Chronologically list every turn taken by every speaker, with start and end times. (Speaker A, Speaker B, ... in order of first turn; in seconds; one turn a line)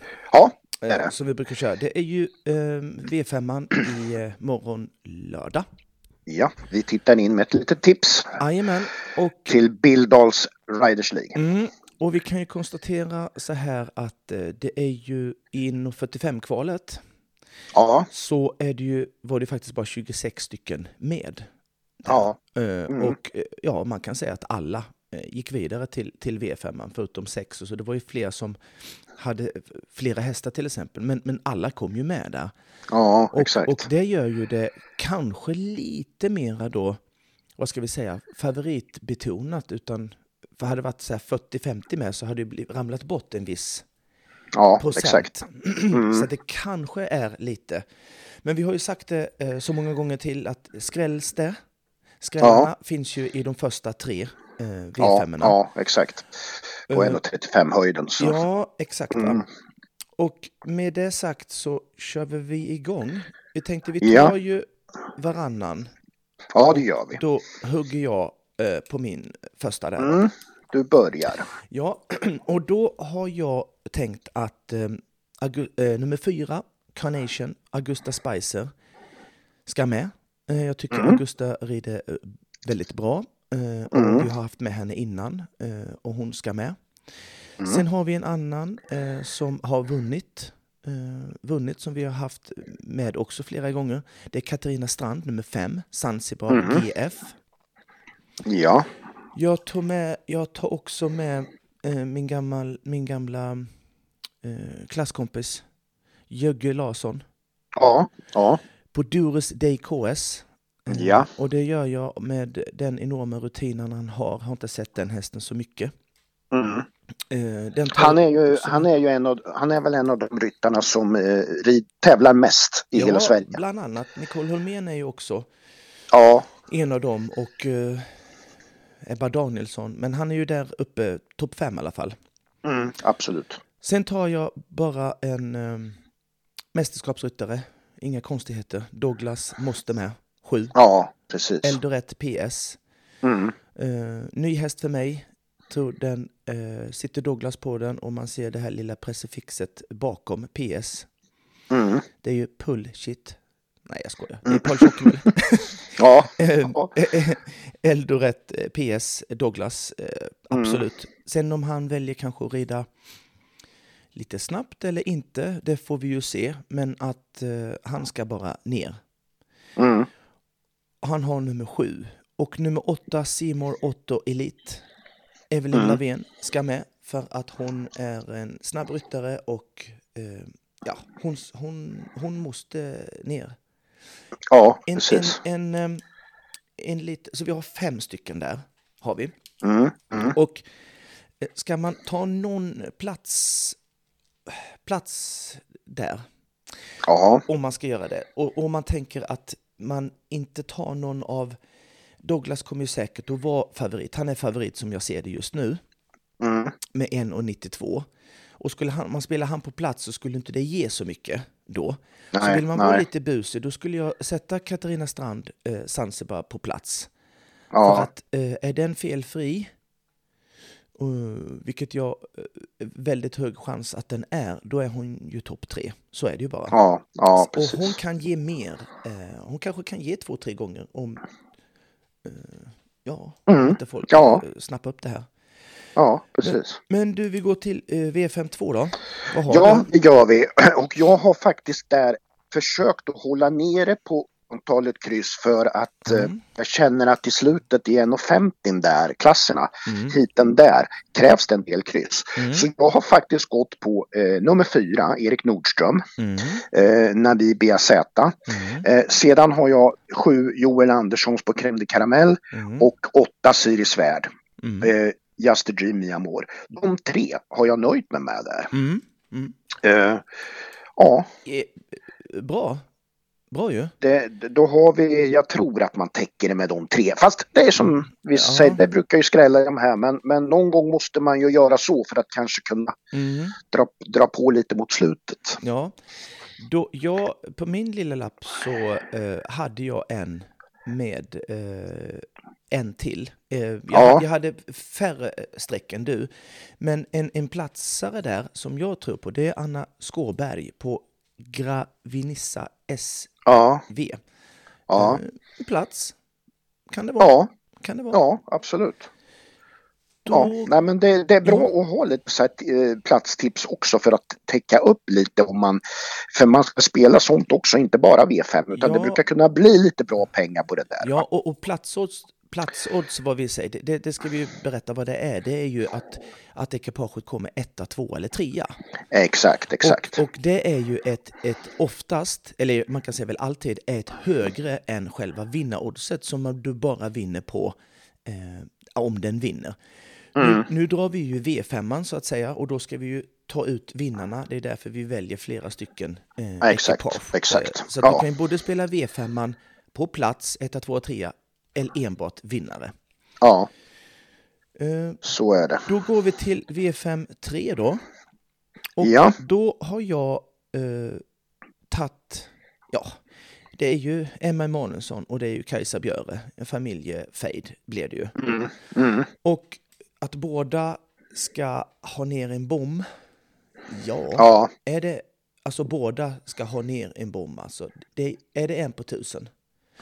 Speaker A: 0.3-1.1
Speaker B: 0.8-5.7
Speaker A: 6.3-8.4
Speaker B: 8.4-9.5
Speaker A: 9.5-11.4
Speaker B: 11.3-17.0
Speaker A: 17.8-18.1
Speaker B: 18.1-21.5
Speaker B: 22.0-28.6
Speaker A: 22.1-22.4
Speaker A: 22.9-23.2
Speaker B: 29.1-32.5
Speaker A: 32.9-33.9
Speaker B: 33.3-37.0
Speaker B: 37.6-43.8
Speaker A: 44.6-45.3
Speaker B: 44.8-47.8
Speaker A: 45.9-46.3
Speaker B: 48.4-51.6
Speaker B: 52.2-55.6
Speaker A: 52.4-52.7
Speaker A: 55.0-56.4
Speaker B: 56.9-57.2
Speaker A: 56.9-58.4
Speaker B: 58.2-59.4
Speaker A: 59.1-59.4
Speaker B: 60.2-65.9
Speaker A: 64.0-64.3
Speaker A: 66.5-67.2
Speaker B: 66.7-70.3
Speaker A: 70.0-71.5
Speaker B: 71.6-78.7
Speaker B: 79.7-86.8
Speaker A: 80.9-81.2
Speaker A: 83.9-84.3
Speaker B: 87.6-97.3
Speaker A: 96.5-96.8
Speaker A: 98.5-98.9
Speaker B: 99.3-103.7
Speaker B: 104.4-105.7
Speaker B: 106.3-107.2
Speaker A: 107.8-108.6
Speaker B: 108.9-115.9
Speaker A: 110.9-111.3
Speaker A: 116.5-116.9
Speaker B: 117.3-118.9
Speaker A: 118.0-123.6
Speaker B: 123.0-125.5
Speaker A: 126.1-126.5
Speaker B: 126.7-128.1
Speaker B: 129.1-132.2
Speaker A: 132.6-133.6
Speaker B: 133.8-136.0
Speaker B: 136.7-140.8
Speaker A: 140.8-141.8
Speaker B: 141.6-142.8
Speaker A: 143.2-143.6
Speaker B: 143.8-151.1
Speaker A: 151.7-152.1
Speaker B: 152.2-162.9
Speaker A: 154.5-155.0
Speaker A: 156.0-156.9
Speaker A: 160.5-160.8
Speaker B: 164.1-169.0
Speaker A: 169.8-170.1
Speaker B: 171.0-174.8
Speaker B: 175.5-183.6
Speaker A: 175.7-176.0
Speaker A: 184.5-185.4
Speaker B: 184.9-186.0
Speaker B: 186.8-189.3
Speaker A: 189.6-190.4
Speaker B: 190.2-190.7
Speaker B: 191.4-193.8
Speaker B: 194.5-196.2
Speaker A: 197.1-197.4
Speaker B: 197.5-201.6
Speaker B: 202.2-205.8
Speaker A: 206.4-206.7
Speaker B: 206.9-208.1
Speaker B: 208.6-217.1
Speaker A: 212.3-213.0
Speaker A: 217.7-218.1
Speaker B: 217.8-219.7
Speaker B: 221.0-226.8
Speaker A: 226.7-228.0
Speaker B: 227.3-231.2
Speaker B: 232.2-235.3
Speaker A: 233.5-234.4
Speaker A: 236.0-236.8
Speaker B: 236.4-239.9
Speaker A: 239.5-256.1
Speaker B: 246.1-246.4
Speaker B: 249.9-250.2
Speaker B: 252.4-252.7
Speaker B: 256.2-256.6
Speaker A: 256.6-264.3
Speaker B: 258.5-258.9
Speaker B: 262.5-262.9
Speaker B: 264.6-264.9
Speaker A: 264.8-268.7
Speaker B: 268.7-269.6
Speaker A: 269.8-270.2
Speaker A: 271.0-271.3
Speaker B: 271.5-272.8
Speaker B: 273.5-273.9
Speaker A: 274.0-282.9
Speaker B: 277.8-278.8
Speaker B: 283.1-283.6
Speaker A: 283.7-285.6
Speaker B: 285.6-285.9
Speaker B: 286.6-304.2
Speaker A: 293.9-294.2
Speaker A: 303.5-303.8
Speaker A: 304.9-305.2
Speaker B: 304.9-306.2
Speaker B: 306.9-308.2
Speaker A: 307.2-307.5
Speaker A: 308.1-309.1
Speaker B: 310.3-310.7
Speaker A: 310.3-321.2
Speaker B: 318.7-319.2
Speaker B: 321.0-328.7
Speaker A: 329.1-330.2
Speaker B: 329.8-337.8
Speaker B: 338.3-339.8
Speaker B: 340.4-352.9
Speaker A: 340.4-340.7
Speaker A: 346.6-348.2
Speaker A: 353.4-353.7
Speaker B: 354.8-355.2
Speaker A: 355.2-355.9
Speaker B: 355.9-358.0
Speaker B: 359.0-361.2
Speaker A: 359.0-359.4
Speaker B: 361.9-363.2
Speaker B: 363.8-368.4
Speaker A: 368.4-369.3
Speaker B: 369.4-373.1
Speaker B: 373.9-379.5
Speaker A: 374.4-374.7